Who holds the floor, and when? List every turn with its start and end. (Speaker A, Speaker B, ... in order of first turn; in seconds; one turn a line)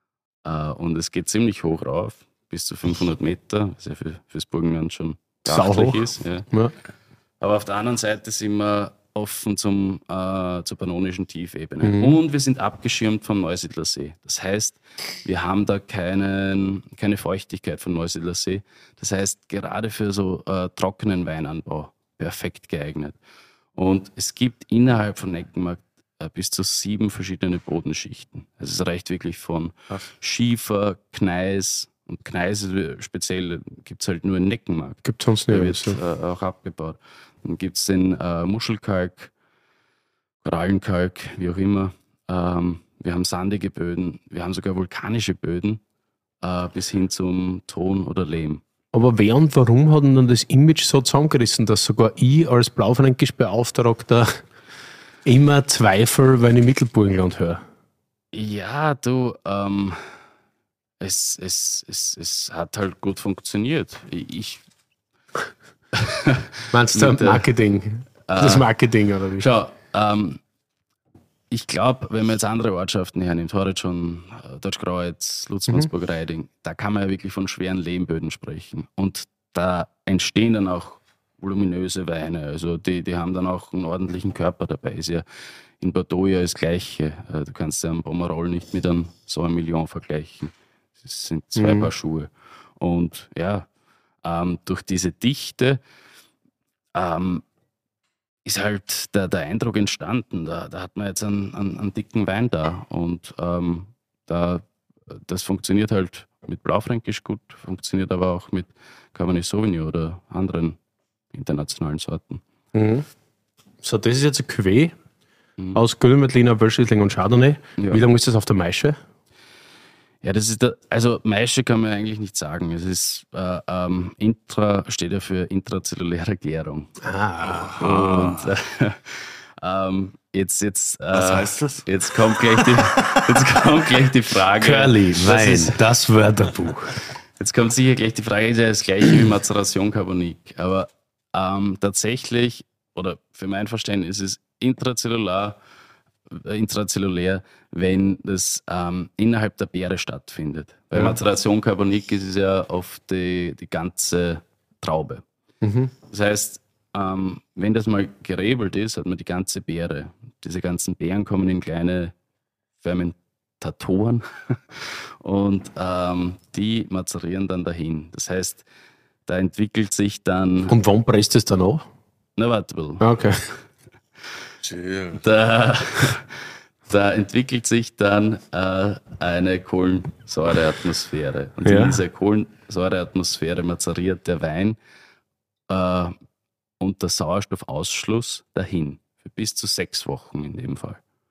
Speaker A: 0.4-6.5
Speaker B: 5.5-6.7
Speaker A: 7.4-23.1
Speaker B: 11.8-12.2
Speaker A: 23.8-39.3
Speaker B: 35.0-36.0
Speaker A: 40.4-45.8
Speaker A: 46.4-48.6
Speaker B: 48.9-54.4
Speaker B: 55.2-57.6
Speaker A: 58.3-60.1
Speaker A: 61.0-64.6
Speaker A: 65.9-67.4
Speaker B: 66.7-69.5
Speaker A: 68.3-68.7
Speaker A: 69.4-70.4
Speaker A: 71.5-85.2
Speaker A: 85.8-93.7
Speaker B: 91.5-91.9
Speaker A: 94.2-95.8
Speaker A: 96.9-97.4
Speaker A: 98.4-110.8
Speaker A: 111.3-112.4
Speaker B: 112.7-113.1
Speaker B: 113.8-114.9
Speaker B: 115.7-119.0
Speaker A: 120.2-126.9
Speaker B: 127.0-127.8
Speaker C: 127.6-128.5
Speaker A: 127.8-135.8
Speaker C: 131.1-133.6
Speaker B: 134.6-136.9
Speaker A: 137.4-145.6
Speaker A: 146.3-155.2
Speaker B: 155.6-155.9
Speaker A: 156.1-162.1
Speaker A: 162.8-168.6
Speaker A: 169.3-170.7
Speaker B: 170.7-171.8
Speaker A: 172.4-173.1
Speaker B: 173.0-173.5
Speaker C: 174.6-175.2
Speaker A: 175.2-184.8
Speaker B: 181.6-182.0
Speaker A: 185.7-186.1
Speaker A: 186.8-191.0